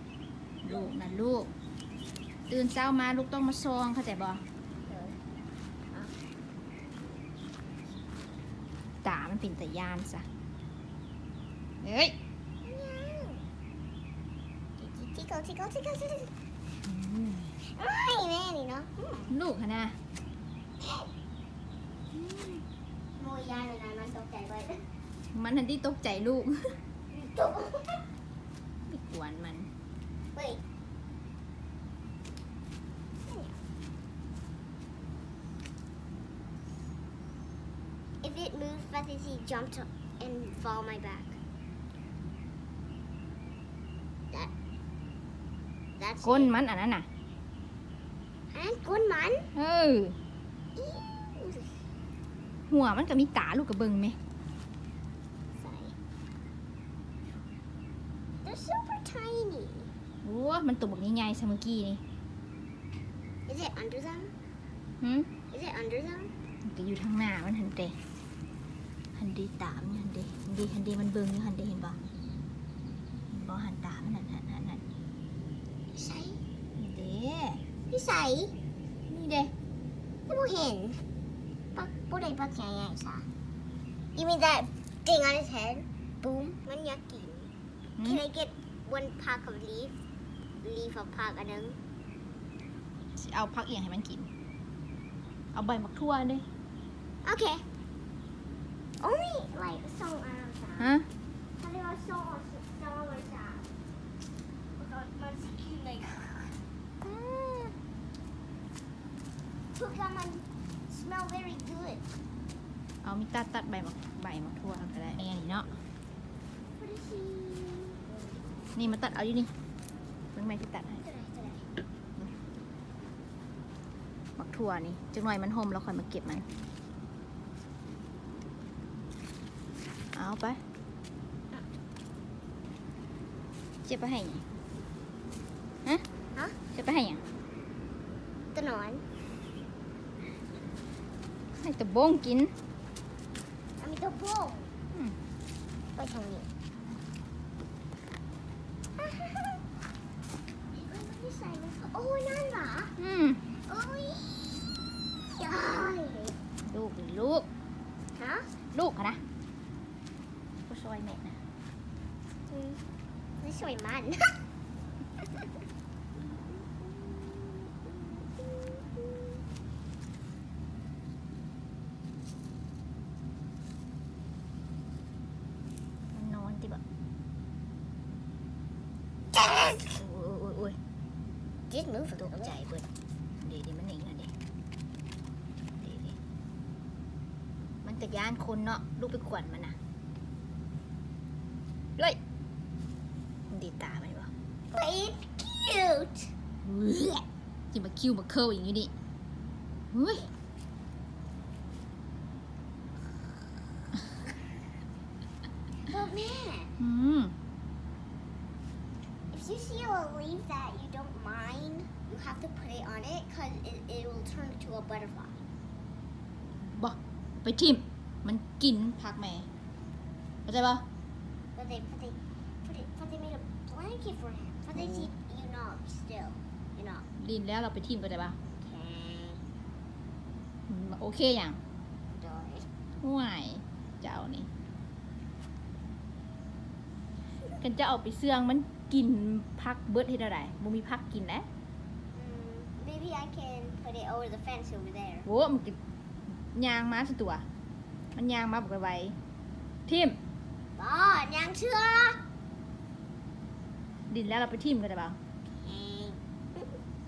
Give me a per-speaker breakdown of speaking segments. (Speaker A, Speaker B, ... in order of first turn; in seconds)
Speaker A: 0.6-1.5, 2.5-4.4, 9.0-10.2, 11.8-12.2, 16.9-17.5, 19.3-20.0, 22.2-22.6, 25.3-26.8, 28.9-29.7, 46.2-47.1, 49.5-50.2, 52.7-54.2, 60.2-62.0, 65.0-65.3, 66.6-68.0, 69.2-72.0, 73.3-74.8, 76.8-77.6, 79.1-79.5, 88.0-88.2, 93.2-94.3, 95.5-96.4, 100.8-101.1, 107.0-107.7, 113.0-115.7, 118.8-119.5, 120.3-121.0, 124.4-126.5, 130.1-130.6, 133.8-134.4, 136.7-137.2, 141.5-142.5, 153.0-153.4, 156.7-157.5, 158.7-159.2, 160.7-161.4, 176.1-176.8, 179.9-180.8, 182.2-182.8, 183.4-184.3, 185.8-186.2, 187.8-189.8, 193.5-194.3, 196.6-198.9, 199.9-200.3, 206.8-207.3, 216.6-219.5, 220.5-220.8, 224.8-225.1, 227.2-228.4, 230.7-231.6, 233.0-234.5, 237.5-241.5, 245.2-245.8, 246.3-247.4, 248.2-249.2, 249.9-250.2, 254.1-255.2
Speaker B: 4.9-5.2, 12.6-13.4, 14.8-16.3, 17.8-19.3, 20.8-21.1, 23.2-24.8, 27.1-28.1, 30.3-30.6, 33.3-33.5, 38.2-41.4, 46.0-46.5, 48.5-49.5, 50.8-51.8, 55.6-55.9, 58.4-59.9, 63.5-64.3, 65.5-66.3, 75.9-76.4, 77.9-78.5, 80.3-81.0, 81.7-83.3, 84.2-87.5, 88.0-90.0, 90.6-91.8, 97.2-97.6, 99.0-100.9, 101.6-103.7, 104.8-106.6, 109.8-112.0, 116.8-118.2, 121.0-121.7, 138.5-139.0, 143.8-144.7, 145.9-146.5, 149.0-149.6, 150.7-152.9, 153.7-154.6, 155.3-156.4, 158.1-158.5, 162.5-162.8, 163.4-164.4, 166.2-169.1, 179.3-180.0, 181.7-182.6, 194.7-196.3, 205.9-206.7, 209.3-215.3, 221.6-227.1, 228.6-229.4, 232.1-232.7, 242.1-245.3, 250.8-252.2, 255.6-256.8